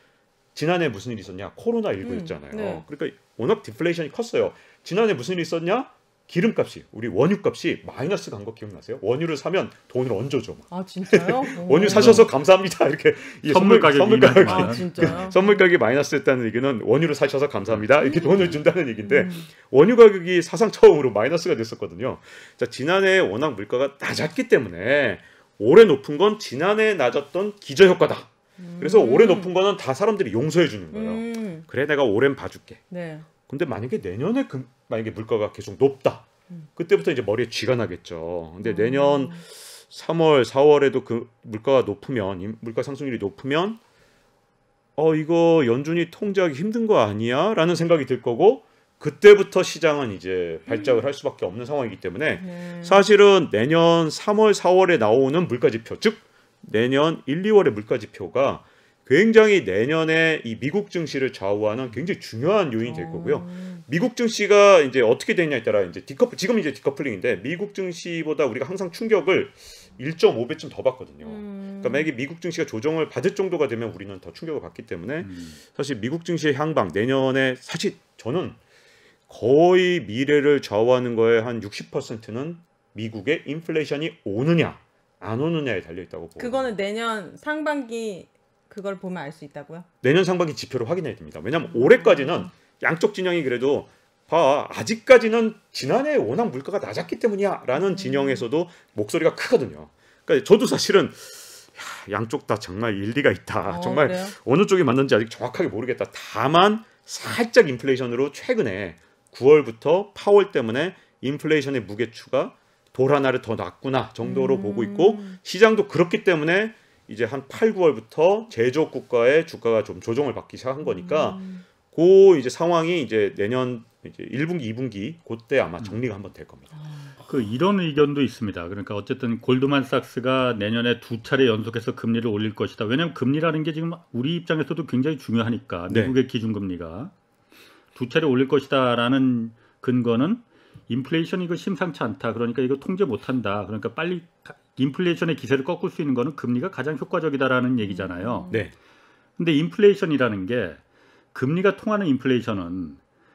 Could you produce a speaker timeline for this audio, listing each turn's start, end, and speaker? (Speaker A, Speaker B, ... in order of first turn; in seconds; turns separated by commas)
Speaker A: 0.6-32.8, Speaker B: 2.0-2.8, Speaker B: 10.7-12.3, Speaker C: 11.8-12.3, Speaker C: 13.4-15.3, Speaker B: 14.4-15.6, Speaker B: 18.0-19.5, Speaker B: 28.6-29.5, Speaker B: 30.9-31.7, Speaker B: 32.9-33.3, Speaker A: 33.5-43.8, Speaker B: 38.6-39.4, Speaker A: 45.0-78.6, Speaker B: 50.7-51.0, Speaker B: 52.4-53.0, Speaker B: 62.8-63.8, Speaker B: 71.2-72.1, Speaker C: 75.2-75.6, Speaker A: 79.3-86.7, Speaker B: 86.4-89.9, Speaker A: 90.0-126.7, Speaker B: 91.7-92.5, Speaker B: 97.8-98.4, Speaker B: 103.7-104.3, Speaker B: 114.2-115.4, Speaker B: 120.8-121.6, Speaker B: 126.8-127.1, Speaker C: 127.2-137.1, Speaker A: 135.9-136.2, Speaker C: 137.9-148.5, Speaker B: 147.9-148.6, Speaker C: 149.4-150.8, Speaker C: 151.3-153.0